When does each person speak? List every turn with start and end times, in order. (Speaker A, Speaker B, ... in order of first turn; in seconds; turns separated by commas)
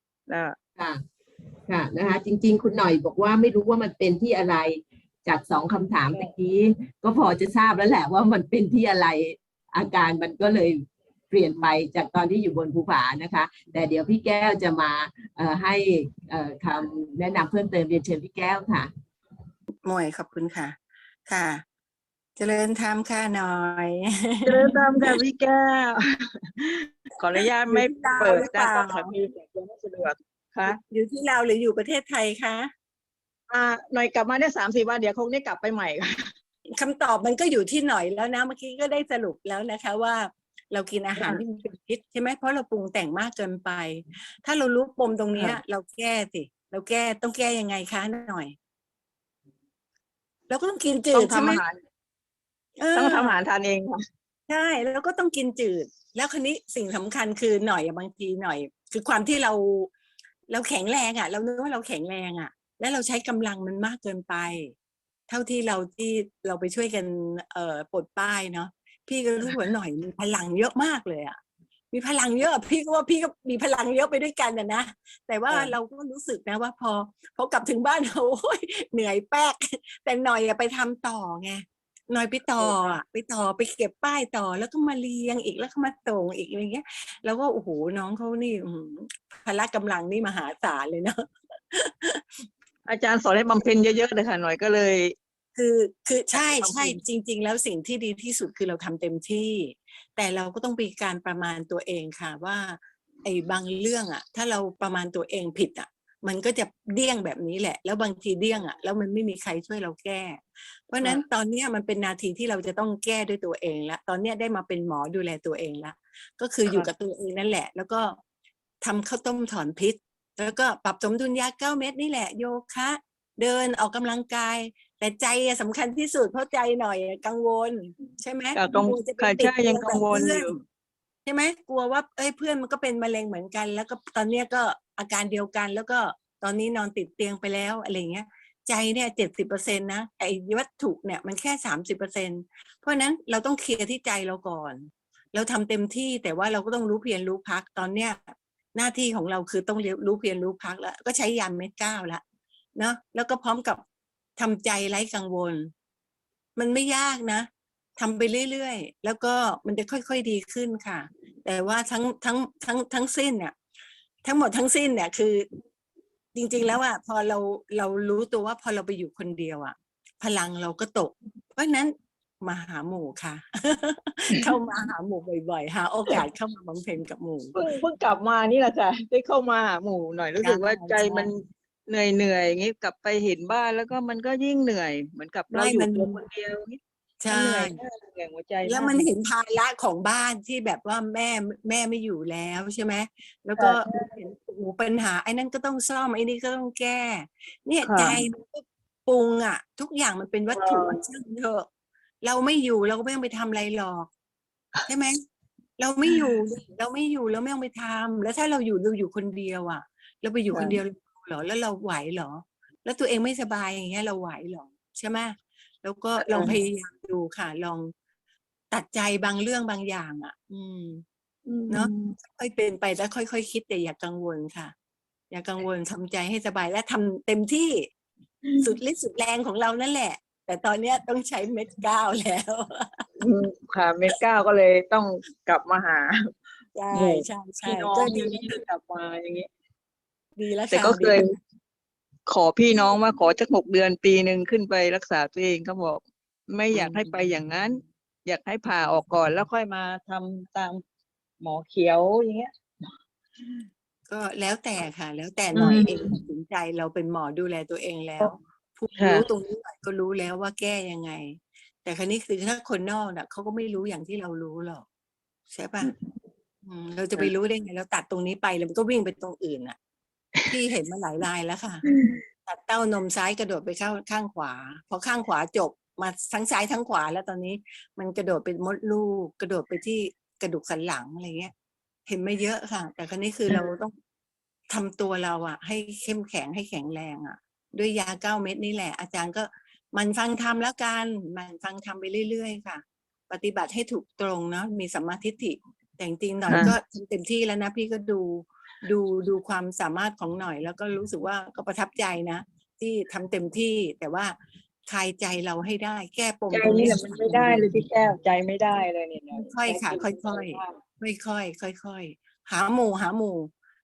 Speaker A: 0.3-0.6, Speaker B: 1.7-18.9, Speaker C: 19.8-21.6, Speaker C: 22.4-25.2, Speaker A: 24.4-26.0, Speaker A: 26.6-30.8, Speaker C: 27.7-29.1, Speaker C: 30.6-32.7, Speaker A: 33.5-36.1, Speaker C: 36.8-48.6, Speaker A: 41.2-41.4, Speaker A: 45.4-45.6, Speaker C: 50.5-51.6, Speaker A: 51.1-51.8, Speaker C: 52.8-53.4, Speaker A: 53.0-54.0, Speaker C: 54.5-59.9, Speaker C: 60.5-64.7, Speaker C: 65.3-71.4, Speaker C: 71.9-92.2, Speaker A: 75.5-75.8, Speaker A: 92.9-95.2, Speaker C: 95.5-118.2, Speaker A: 96.3-97.0, Speaker A: 116.7-116.9, Speaker C: 118.8-130.6, Speaker A: 128.6-130.5, Speaker C: 131.2-152.2, Speaker C: 152.8-153.8, Speaker C: 154.4-155.7, Speaker C: 156.6-163.6, Speaker C: 164.2-165.5, Speaker C: 166.3-177.7, Speaker A: 177.6-189.1, Speaker C: 180.4-181.3, Speaker C: 185.5-186.2, Speaker C: 187.2-187.8, Speaker C: 188.6-201.7, Speaker A: 193.6-194.1, Speaker A: 197.8-198.2, Speaker A: 200.5-201.0, Speaker C: 202.2-204.1, Speaker C: 204.9-205.2, Speaker C: 205.8-217.9, Speaker A: 210.5-210.8, Speaker A: 216.2-216.6, Speaker C: 218.7-221.0, Speaker A: 221.5-222.0, Speaker C: 221.7-224.7, Speaker C: 225.3-227.9, Speaker C: 228.6-233.2, Speaker A: 233.2-236.2, Speaker C: 236.8-238.6, Speaker A: 236.9-239.5, Speaker C: 240.4-241.2, Speaker A: 240.7-241.2, Speaker A: 242.3-250.8, Speaker C: 246.7-247.3, Speaker A: 251.4-252.5, Speaker C: 254.1-264.9, Speaker B: 255.6-256.1, Speaker A: 259.0-259.3, Speaker C: 265.5-265.9, Speaker C: 266.7-269.8, Speaker C: 270.5-271.8, Speaker A: 271.9-272.2, Speaker C: 272.5-281.5, Speaker C: 282.1-283.9, Speaker C: 284.7-307.8, Speaker A: 296.5-296.8, Speaker A: 306.5-310.7, Speaker C: 309.4-313.5